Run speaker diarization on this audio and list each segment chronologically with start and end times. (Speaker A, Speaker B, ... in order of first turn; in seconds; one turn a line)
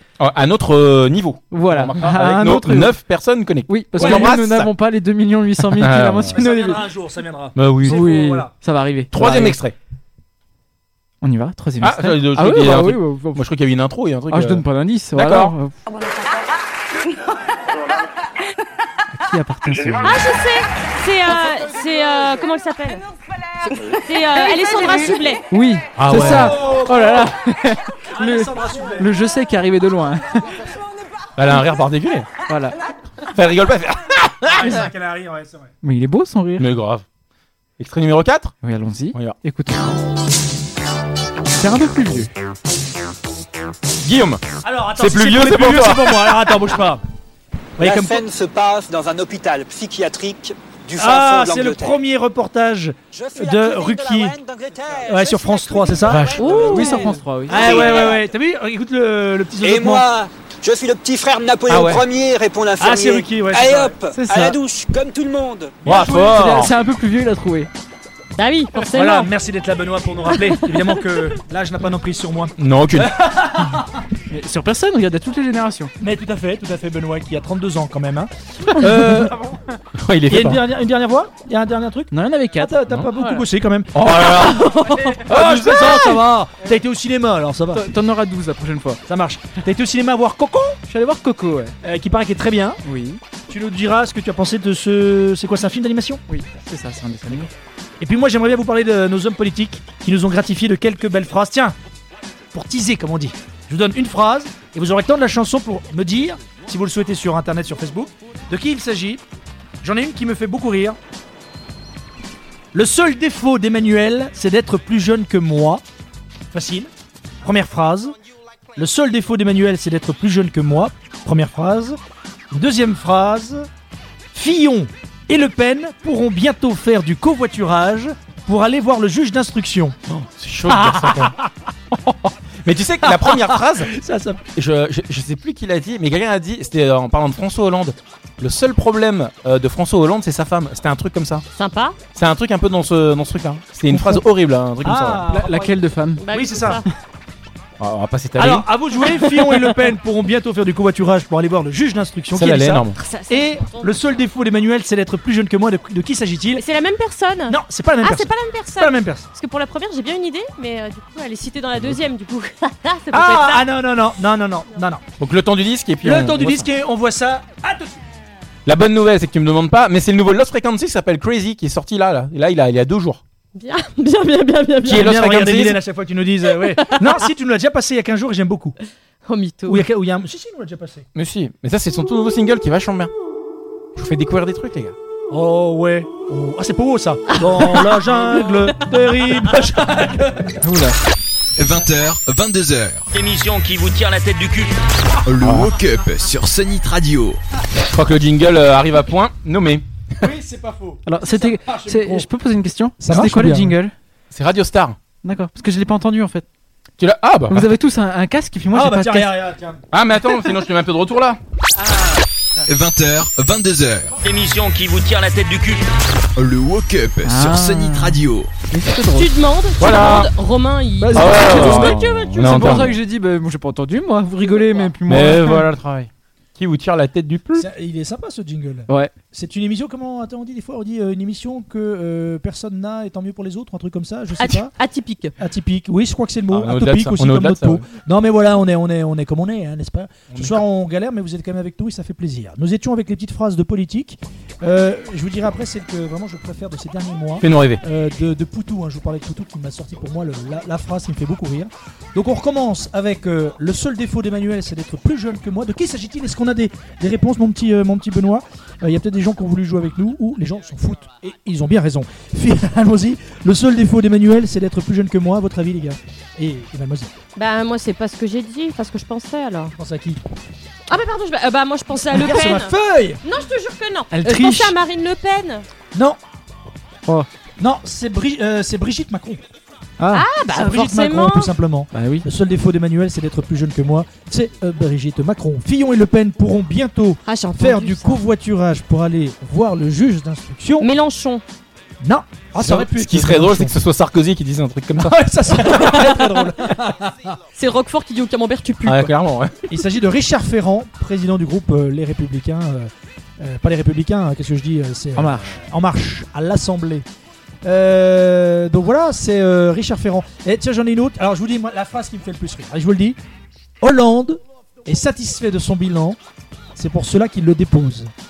Speaker A: 0.2-4.7
Speaker B: 1.5-3.0
Speaker B: 3.7-6.8
Speaker C: 4.0-4.3
Speaker A: 5.7-6.4
Speaker C: 6.3-8.5
Speaker A: 7.5-8.0
Speaker B: 7.8-9.6
Speaker A: 9.1-9.7
Speaker B: 11.2-13.4
Speaker A: 11.8-15.5
Speaker B: 14.3-15.7
Speaker B: 19.1-20.2
Speaker D: 20.0-23.0
Speaker D: 23.9-25.4
Speaker B: 25.5-30.6
Speaker A: 25.9-26.7
Speaker C: 26.1-27.3
Speaker C: 28.1-29.1
Speaker A: 31.4-32.3
Speaker B: 32.5-32.8
Speaker A: 33.2-34.7
Speaker C: 34.5-35.7
Speaker B: 35.8-36.7
Speaker A: 36.6-37.0
Speaker A: 37.8-38.5
Speaker B: 38.6-40.0
Speaker B: 41.5-42.3
Speaker A: 44.0-44.4
Speaker C: 44.6-47.0
Speaker A: 45.0-46.5
Speaker C: 47.8-48.2
Speaker E: 47.8-52.0
Speaker C: 51.0-54.4
Speaker E: 53.1-58.3
Speaker C: 55.0-56.3
Speaker A: 56.0-56.5
Speaker D: 56.4-57.1
Speaker B: 56.4-57.9
Speaker C: 57.5-60.0
Speaker D: 57.7-58.1
Speaker E: 59.6-65.8
Speaker A: 61.7-62.0
Speaker C: 62.8-63.9
Speaker B: 64.1-64.6
Speaker C: 65.8-66.5
Speaker A: 65.8-66.7
Speaker B: 66.0-67.7
Speaker D: 68.3-69.3
Speaker C: 68.9-73.9
Speaker D: 70.5-70.9
Speaker A: 72.6-73.2
Speaker B: 74.3-75.9
Speaker C: 76.0-79.5
Speaker A: 80.0-80.6
Speaker C: 80.3-84.5
Speaker B: 82.1-83.4
Speaker A: 83.9-84.7
Speaker D: 84.3-85.2
Speaker C: 85.2-87.8
Speaker A: 85.3-86.1
Speaker B: 87.7-89.0
Speaker C: 89.0-90.8
Speaker B: 90.9-91.7
Speaker C: 91.8-92.8
Speaker B: 92.8-93.2
Speaker C: 93.5-96.2
Speaker B: 96.3-97.5
Speaker C: 98.0-101.8
Speaker C: 102.5-109.2
Speaker C: 109.8-111.0
Speaker C: 112.7-115.8
Speaker C: 116.5-116.9
Speaker C: 117.4-118.1
Speaker C: 118.8-122.0
Speaker C: 122.5-123.7
Speaker C: 124.3-130.0
Speaker A: 130.1-131.4
Speaker C: 130.7-131.5
Speaker A: 132.0-133.9
Speaker C: 133.0-134.4
Speaker A: 134.6-141.4
Speaker D: 141.5-142.0
Speaker A: 142.1-145.3
Speaker C: 143.9-144.2
Speaker C: 144.8-145.8
Speaker B: 145.3-146.2
Speaker D: 146.2-146.8
Speaker C: 146.3-146.8
Speaker A: 147.8-148.7
Speaker C: 148.4-156.6
Speaker D: 149.1-149.7
Speaker A: 152.3-152.9
Speaker D: 153.0-153.9
Speaker D: 156.5-163.7
Speaker C: 157.5-159.3
Speaker C: 163.1-165.0
Speaker A: 165.2-166.7
Speaker C: 166.0-168.0
Speaker A: 168.7-173.2
Speaker D: 173.5-175.2
Speaker C: 174.8-178.7
Speaker A: 174.9-175.8
Speaker D: 176.5-177.2
Speaker D: 179.2-179.8
Speaker C: 179.7-181.1
Speaker A: 181.1-183.1
Speaker A: 183.9-184.9
Speaker C: 185.3-190.6
Speaker D: 187.3-187.9
Speaker B: 190.6-191.0
Speaker F: 191.6-193.1
Speaker G: 193.1-194.7
Speaker F: 195.2-197.4
Speaker A: 195.4-195.7
Speaker A: 197.9-199.8
Speaker C: 200.2-202.3
Speaker B: 201.0-203.9
Speaker C: 203.0-203.8
Speaker A: 204.3-205.0
Speaker B: 205.2-206.4
Speaker A: 207.0-207.7
Speaker B: 207.5-209.3
Speaker C: 208.7-209.8
Speaker A: 209.9-211.4
Speaker F: 212.7-214.2
Speaker G: 214.2-215.8
Speaker F: 216.3-218.5
Speaker B: 217.2-219.3
Speaker D: 219.1-222.7
Speaker A: 219.8-220.3
Speaker B: 221.0-225.7
Speaker A: 221.1-223.0
Speaker A: 225.1-227.7
Speaker C: 227.5-234.7
Speaker B: 228.9-229.2
Speaker D: 234.4-235.3
Speaker C: 235.4-267.1
Speaker A: 236.5-237.8
Speaker A: 240.3-240.6
Speaker A: 247.4-247.8
Speaker D: 267.4-269.7
Speaker C: 269.8-270.2
Speaker D: 270.9-275.6
Speaker C: 272.0-273.2
Speaker B: 274.1-274.7
Speaker C: 275.9-276.2
Speaker C: 277.6-279.4
Speaker B: 280.0-280.3
Speaker D: 280.1-281.5
Speaker C: 280.5-290.9
Speaker B: 281.9-282.3
Speaker D: 287.2-288.2
Speaker D: 290.8-291.4
Speaker C: 292.0-293.7
Speaker A: 292.6-295.2
Speaker C: 294.9-297.4
Speaker D: 295.6-296.5
Speaker D: 297.6-299.1
Speaker A: 298.8-299.5
Speaker C: 299.7-307.0
Speaker B: 305.2-305.6
Speaker C: 307.6-313.2
Speaker C: 313.8-316.2
Speaker C: 316.7-318.1